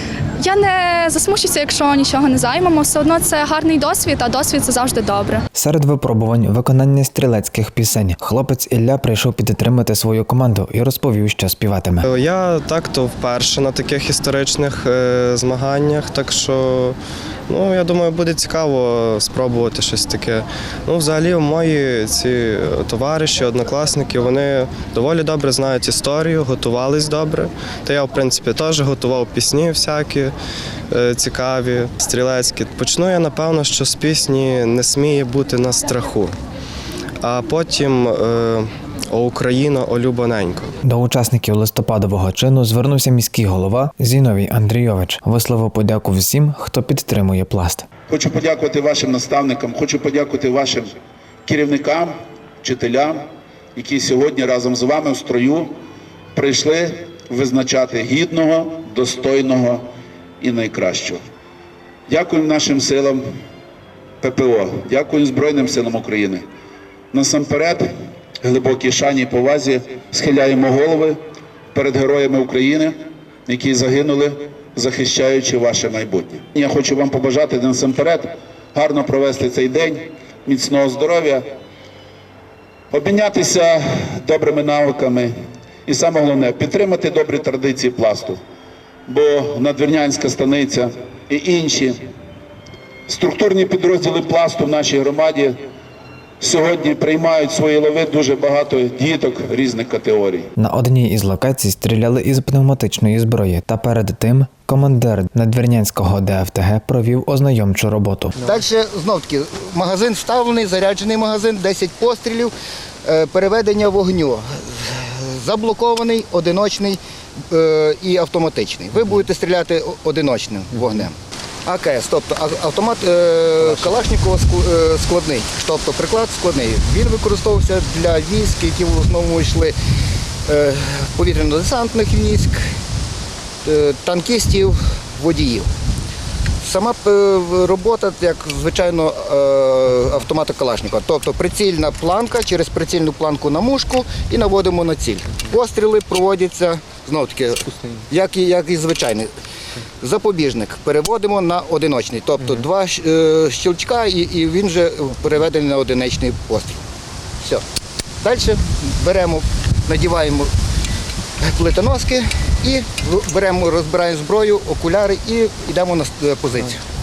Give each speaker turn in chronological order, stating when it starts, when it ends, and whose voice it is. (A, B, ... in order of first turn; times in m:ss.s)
0:00.4-0:05.4 A
0:05.5-0:12.1 B
0:12.0-0:17.0 C
0:17.5-0:30.3 C
0:30.9-0:36.3 C
0:37.2-0:40.7 C
0:40.8-0:47.9 B
0:48.1-0:50.9 D
0:51.4-0:55.7 D
0:56.3-0:59.8 D
1:00.4-1:01.2 D
1:02.1-1:03.2 D
1:04.2-1:06.4 D
1:07.1-1:07.9 D
1:08.4-1:11.2 D
1:11.7-1:21.5 D
1:22.9-1:25.3 D
1:25.9-1:28.4 D
1:29.1-1:32.0 D
1:33.1-1:35.6 D
1:36.4-1:40.5 D
1:40.6-1:48.3 B
1:48.4-1:52.5 E
1:53.0-1:57.0 E
1:57.5-2:01.1 E
2:01.6-2:09.7 E
2:10.5-2:12.6 E
2:13.6-2:15.7 E
2:16.6-2:29.3 E
2:30.0-2:36.8 E
2:38.2-2:40.5 E
2:41.4-2:46.8 E